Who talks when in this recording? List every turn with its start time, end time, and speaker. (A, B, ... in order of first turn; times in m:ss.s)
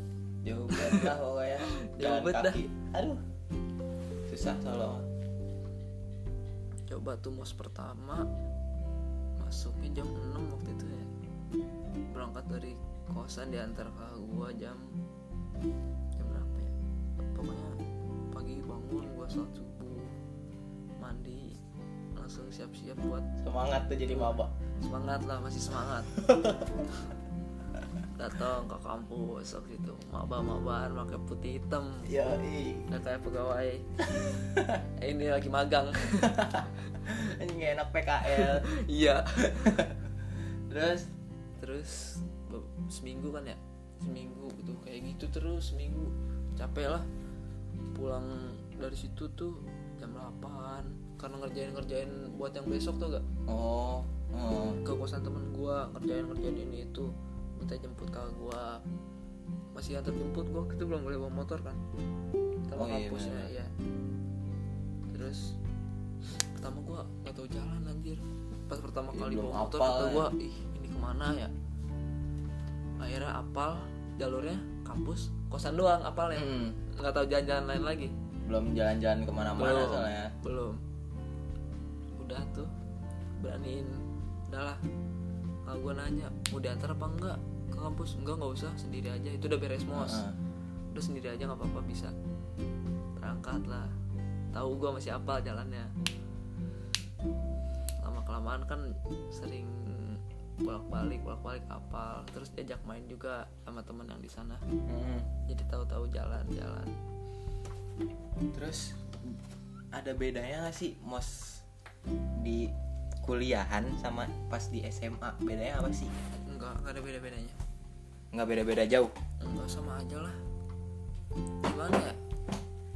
0:00.4-0:03.2 A
0:00.7-0:01.1 B
0:01.8-0:02.6 B
0:04.3-0:05.1 A
0:06.9-0:08.3 B
0:09.4-0:11.1 B
0:12.1-0:15.0 B
0:16.2-0:17.8 B
0:18.3-0:20.2 B
0:21.0-0:21.6 B
0:22.2-0:23.3 B
0:23.4-0:24.5 A
0:24.1-0:26.2 B
0:26.1-0:26.7 A
0:28.2-0:32.1 B
0:32.1-0:32.9 A
0:32.9-0:33.9 B
0:34.2-0:34.8 A
0:35.0-0:37.0 B
0:36.2-0:38.6 A
0:38.2-0:39.8 B
0:39.4-0:40.0 A
0:40.7-0:41.1 A
0:41.6-0:47.1 B
0:47.9-0:53.2 B
0:53.5-0:54.8 A
0:54.8-0:58.8 B
0:59.8-1:01.8 B
1:02.7-1:03.7 B
1:02.8-1:03.5 A
1:05.1-1:05.6 B
1:06.5-1:11.5 B
1:09.1-1:10.3 A
1:13.0-1:18.1 B
1:16.3-1:16.8 A
1:18.5-1:20.3 A
1:19.6-1:20.8 B
1:22.2-1:22.7 B
1:23.4-1:24.8 B
1:25.7-1:30.2 B
1:30.0-1:30.4 A
1:30.9-1:32.1 B
1:33.2-1:33.9 B
1:34.5-1:35.9 B
1:38.0-1:44.6 B
1:44.9-1:45.3 A
1:45.5-1:46.9 B
1:48.5-1:49.4 A
1:49.9-1:51.6 A
1:52.4-1:52.7 A
1:53.2-1:56.1 A
1:56.5-1:57.6 B
1:58.3-1:59.1 A
1:59.4-2:00.4 B
2:01.6-2:02.2 B